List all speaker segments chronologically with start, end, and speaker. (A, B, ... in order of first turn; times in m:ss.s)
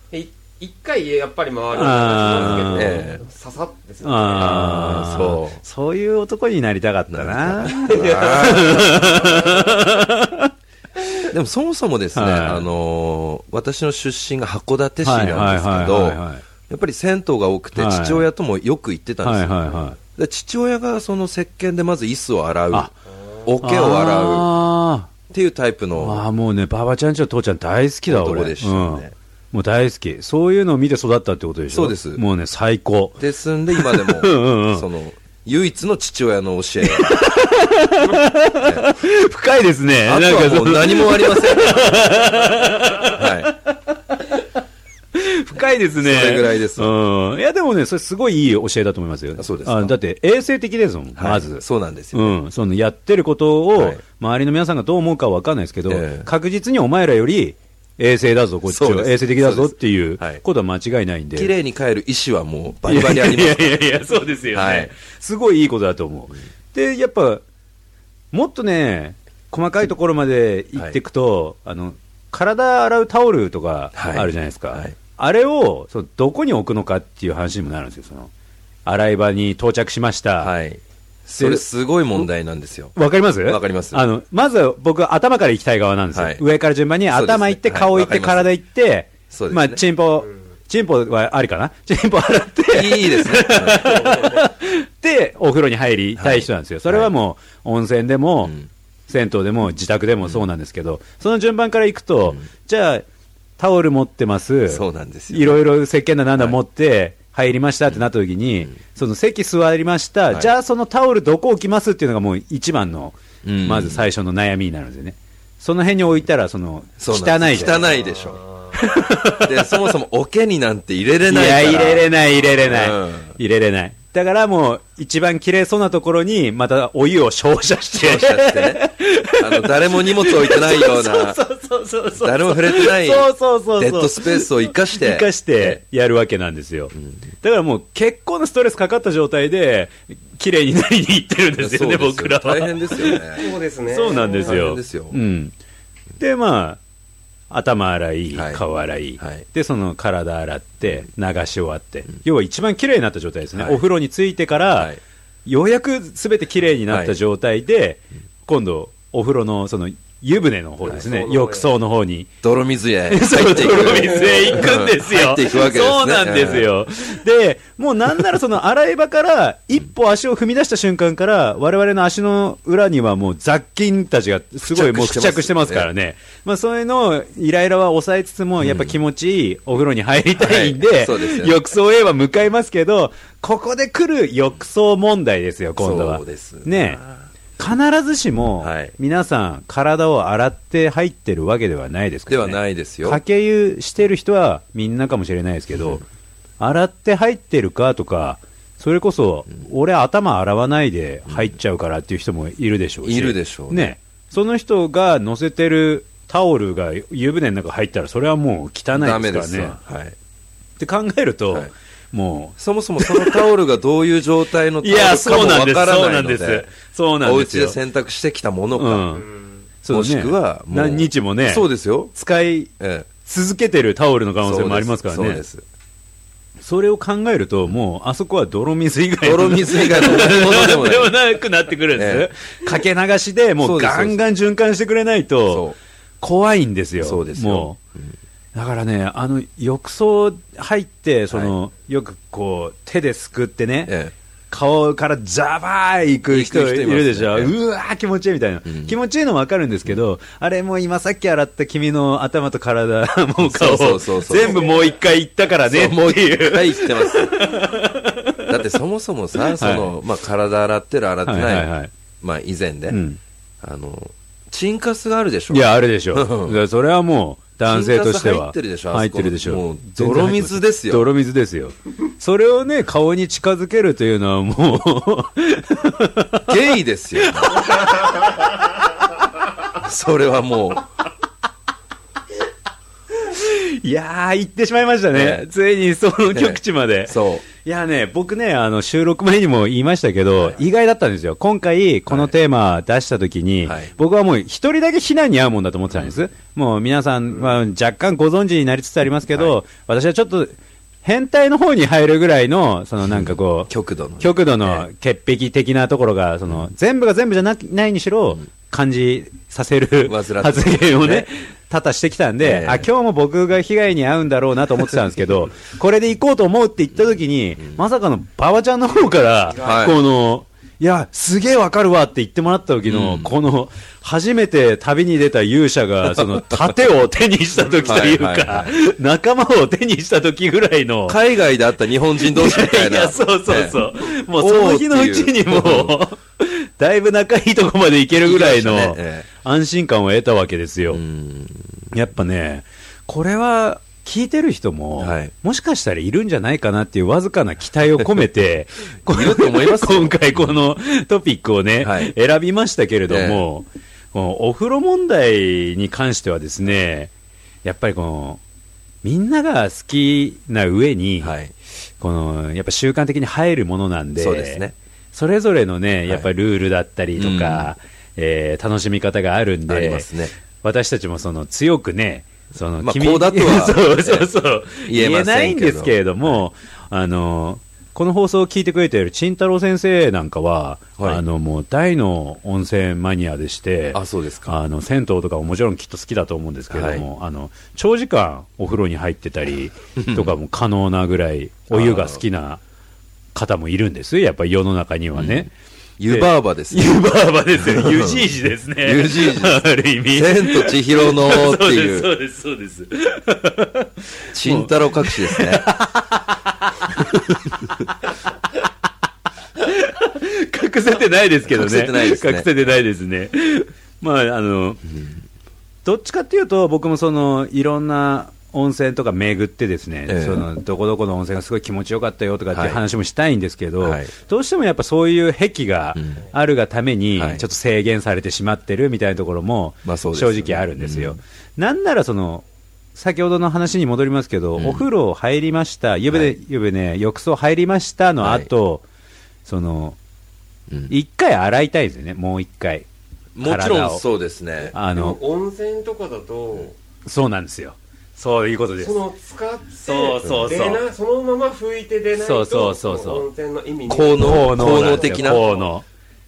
0:00.1-0:04.6 A
0:01.7-0:03.0 B
0:02.4-0:03.2 C
0:04.0-0:10.5 B
0:04.4-0:05.6 C
0:07.1-0:08.9 C
0:07.8-0:09.6 A
0:11.3-0:22.9 C
0:12.1-0:12.7 B
0:15.0-0:16.4 B
0:17.8-0:18.2 B
0:19.2-0:20.0 B
0:23.4-0:24.5 C
0:23.6-0:25.1 B
0:25.3-0:26.2 C
0:26.0-0:34.8 B
0:28.1-0:29.1 C
0:31.7-0:32.2 C
0:33.2-0:37.3 C
0:36.8-0:44.3 B
0:38.5-0:38.8 C
0:40.1-0:42.1 C
0:43.0-0:43.5 C
0:45.1-1:01.5 B
0:46.0-0:46.9 C
0:49.4-0:49.9 C
0:51.2-0:52.4 C
0:53.8-0:54.0 C
0:55.9-0:56.3 C
0:58.7-1:00.4 C
1:01.3-1:03.8 C
1:02.9-1:07.4 B
1:04.5-1:04.9 C
1:08.3-1:18.3 B
1:13.9-1:14.9 C
1:18.8-1:20.5 B
1:20.4-1:24.0 C
1:21.4-1:22.3 B
1:22.9-1:38.5 B
1:26.1-1:26.4 C
1:27.1-1:28.5 C
1:29.3-1:29.8 C
1:32.7-1:34.1 C
1:33.8-1:34.4 A
1:36.2-1:37.1 C
1:39.1-1:43.0 B
1:43.6-1:57.9 B
1:44.7-1:45.6 C
1:53.4-1:54.1 C
1:57.0-1:58.4 C
1:58.7-1:59.8 B
1:59.4-2:03.3 C
2:01.3-2:23.4 B
2:08.0-2:11.4 C
2:12.2-2:15.8 C
2:21.6-2:23.5 C
2:23.3-2:24.6 A
2:23.9-2:25.5 B
2:24.4-2:25.2 C
2:26.2-2:26.8 B
2:27.5-2:34.9 B
2:28.3-2:28.6 C
2:29.2-2:29.4 C
2:35.4-2:42.3 B
2:36.9-2:37.1 C
2:40.9-2:41.7 A
2:42.4-2:46.7 C
2:43.1-3:07.0 B
2:54.6-2:55.9 C
2:58.6-2:58.9 C
3:00.4-3:01.6 C
3:05.8-3:07.2 C
3:07.6-3:16.0 B
3:08.6-3:08.9 C
3:12.3-3:13.2 C
3:16.6-3:29.8 B
3:23.0-3:24.0 C
3:28.9-3:30.1 C
3:30.8-3:33.4 B
3:32.6-3:36.7 C
3:34.8-3:37.8 B
3:37.2-3:39.1 C
3:38.8-3:39.3 B
3:39.8-3:42.7 B
3:39.9-3:42.1 C
3:42.8-3:43.1 C
3:43.2-3:45.4 B
3:44.4-3:45.6 C
3:46.6-3:55.7 B
3:49.2-3:51.1 C
3:51.9-3:52.3 C
3:53.6-3:54.2 C
3:55.5-3:55.8 C
3:56.2-3:57.8 B
3:57.0-3:58.1 C
3:58.5-4:03.9 B
4:03.9-4:04.1 C
4:04.5-4:18.5 B
4:06.3-4:07.5 C
4:08.6-4:08.9 C
4:13.4-4:14.6 C
4:15.6-4:17.6 C
4:18.5-4:21.7 C
4:19.5-4:19.9 B
4:21.2-4:21.9 B
4:22.2-4:23.0 C
4:22.9-4:23.2 B
4:23.6-4:26.6 C
4:25.5-4:36.5 B
4:27.7-4:31.0 C
4:36.5-4:37.7 C
4:37.2-4:38.1 B
4:39.8-4:40.9 C
4:43.3-5:31.2 B
4:45.1-4:45.4 C
4:46.3-4:47.4 C
4:52.1-4:52.3 C
4:53.6-4:53.9 C
5:03.1-5:04.9 C
5:10.0-5:11.3 C
5:12.4-5:12.9 C
5:19.0-5:19.9 A
5:19.6-5:20.0 C
5:22.9-5:23.3 C
5:26.1-5:26.7 C
5:27.8-5:28.8 C
5:31.1-5:36.0 C
5:32.2-5:41.0 B
5:38.2-5:39.3 C
5:40.9-5:41.8 C
5:41.9-5:57.1 B
5:45.0-5:45.3 C
5:49.1-5:50.5 C
5:51.8-5:52.1 C
5:53.1-5:53.4 C
5:57.6-5:58.4 B
5:59.0-6:01.3 B
6:01.2-6:01.5 C
6:02.0-6:10.1 B
6:04.2-6:04.7 C
6:07.2-6:07.7 C
6:09.7-6:10.3 C
6:10.6-6:32.6 B
6:12.8-6:16.4 C
6:23.9-6:24.6 C
6:26.7-6:27.1 C
6:30.0-6:30.3 C
6:31.7-6:32.2 C
6:33.3-6:35.5 B
6:35.2-6:35.5 C
6:36.0-6:37.0 C
6:36.1-6:47.5 B
6:37.6-6:38.3 C
6:38.8-6:42.1 C
6:44.3-6:45.7 C
6:49.6-6:54.8 B
6:51.5-6:52.5 C
6:55.8-7:12.4 B
7:00.1-7:00.4 C
7:02.5-7:02.8 C
7:03.8-7:04.1 C
7:07.2-7:07.4 C
7:09.8-7:11.2 C
7:12.9-7:18.8 B
7:14.6-7:14.9 C
7:18.2-7:18.5 C
7:19.4-7:20.0 B
7:20.9-7:22.8 B
7:23.4-7:24.7 C
7:23.4-7:24.0 B
7:24.7-7:25.2 B
7:24.8-7:26.7 A
7:27.0-7:29.0 B
7:28.8-7:35.6 A
7:29.8-7:30.8 B
7:32.2-7:33.2 B
7:33.9-7:35.5 C
7:34.2-7:35.8 B